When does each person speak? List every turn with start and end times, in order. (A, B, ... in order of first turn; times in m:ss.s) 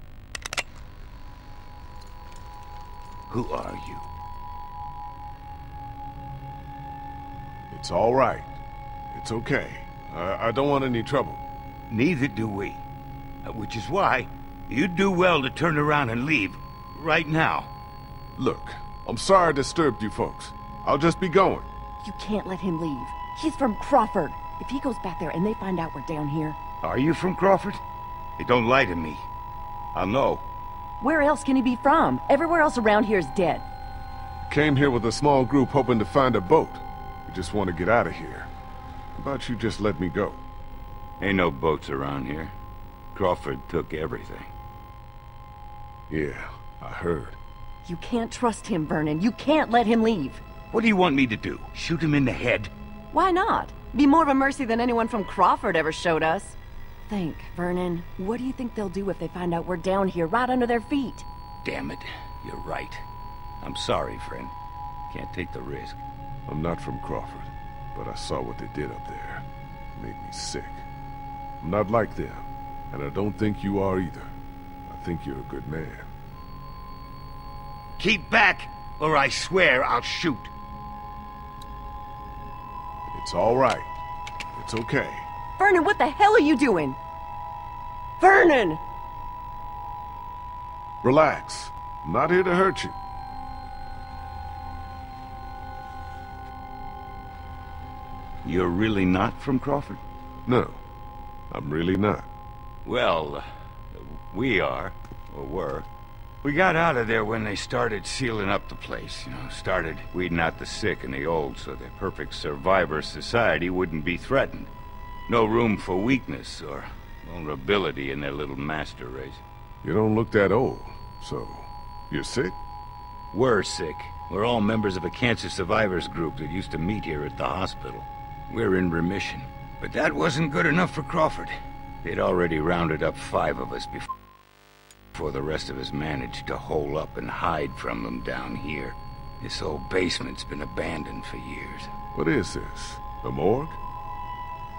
0:03.3-0:04.1 A
0:07.7-0:08.5 B
0:09.1-0:11.4 B
0:11.9-0:12.8 A
0:13.4-0:17.7 A
0:18.4-0:21.7 B
0:22.0-0:26.6 C
0:26.8-0:27.8 A
0:28.4-0:29.2 A
0:29.9-0:30.4 A
0:31.0-0:33.6 C
0:34.5-0:38.5 B
0:39.2-0:40.4 B
0:41.2-0:42.5 A
0:43.1-0:44.5 A
0:46.1-0:47.4 B
0:47.8-0:50.4 C
0:50.7-0:52.7 A
0:53.1-0:56.6 C
0:57.1-1:01.2 C
1:01.6-1:03.0 A
1:03.6-1:04.5 A
1:05.1-1:06.0 A
1:06.5-1:10.8 B
1:11.6-1:14.3 B
1:14.8-1:16.1 B
1:18.0-1:20.5 A
1:23.1-1:23.9 B
1:24.5-1:25.3 B
1:25.6-1:27.0 C
1:28.2-1:28.8 C
1:31.0-1:33.0 B
1:38.4-1:40.0 A
1:40.4-1:40.8 B
1:41.5-1:42.3 B
1:42.8-1:45.9 A
1:46.4-1:54.7 A
1:55.3-1:59.4 A
1:59.8-2:02.6 B
2:03.3-2:14.1 A
2:15.1-2:21.9 A
2:22.1-2:23.8 B